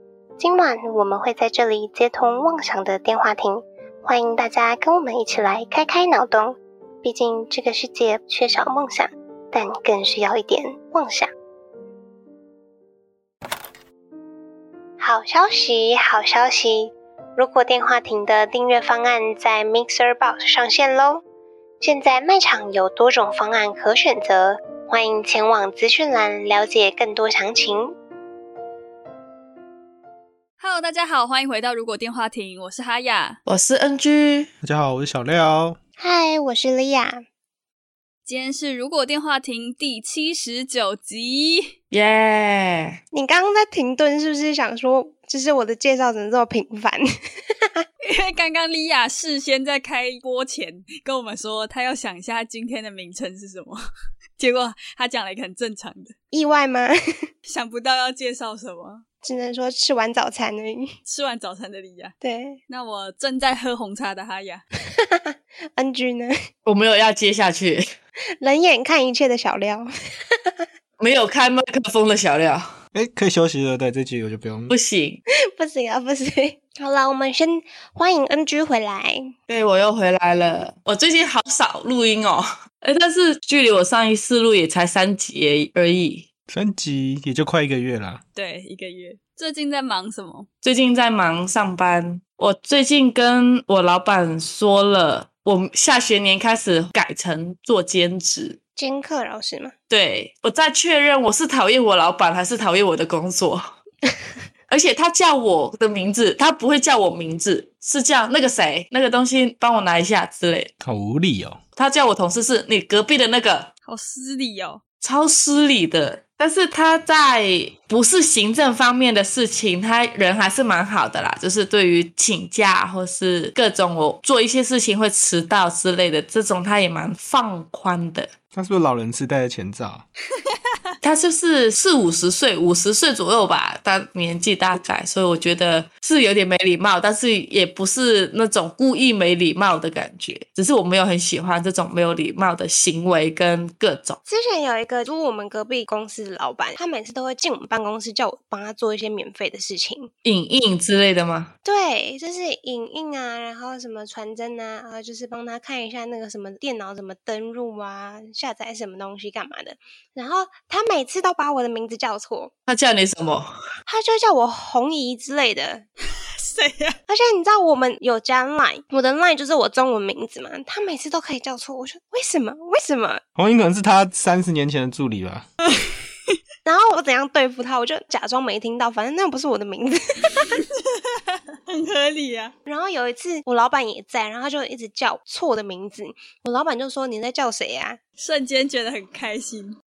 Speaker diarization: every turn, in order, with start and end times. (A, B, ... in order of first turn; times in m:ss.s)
0:00.4-0:11.3 A
0:15.0-0:21.2 A
0:21.8-0:27.9 A
0:30.6-0:33.4 B
0:33.4-0:34.5 C
0:34.6-0:35.8 D
0:36.0-0:37.2 E
0:38.2-0:41.7 B
0:41.9-0:43.0 C
0:43.1-0:47.0 E
0:48.0-0:53.8 B
0:54.4-0:56.1 B
0:56.3-0:57.3 E
0:57.4-0:59.0 B
0:59.2-1:00.9 E
1:01.0-1:02.1 B
1:02.2-1:02.6 E
1:02.7-1:04.6 B
1:04.9-1:06.3 E
1:06.6-1:07.8 C
1:08.4-1:10.6 E
1:11.0-1:12.7 C
1:12.9-1:14.7 D
1:14.7-1:15.2 C
1:15.5-1:19.3 E
1:19.5-1:26.3 C
1:26.5-1:28.2 D
1:28.3-1:30.5 B
1:30.6-1:38.6 C
1:38.8-1:39.7 E
1:39.9-1:43.7 C
1:44.7-1:50.7 C
1:50.8-1:51.6 D
1:51.8-1:53.7 C
1:53.8-1:54.8 B
1:55.0-2:08.3 C
2:08.5-2:10.0 D
2:11.0-2:24.2 C
2:24.2-2:30.1 E
2:30.2-2:31.5 C
2:31.6-2:42.5 E
2:42.7-2:43.5 C
2:43.9-2:45.8 E
2:46.4-2:47.0 B
2:47.1-2:53.2 E
2:53.4-2:55.4 D
2:56.6-3:00.5 E
3:01.0-3:02.5 B
3:02.6-3:08.0 E
3:08.2-3:09.8 B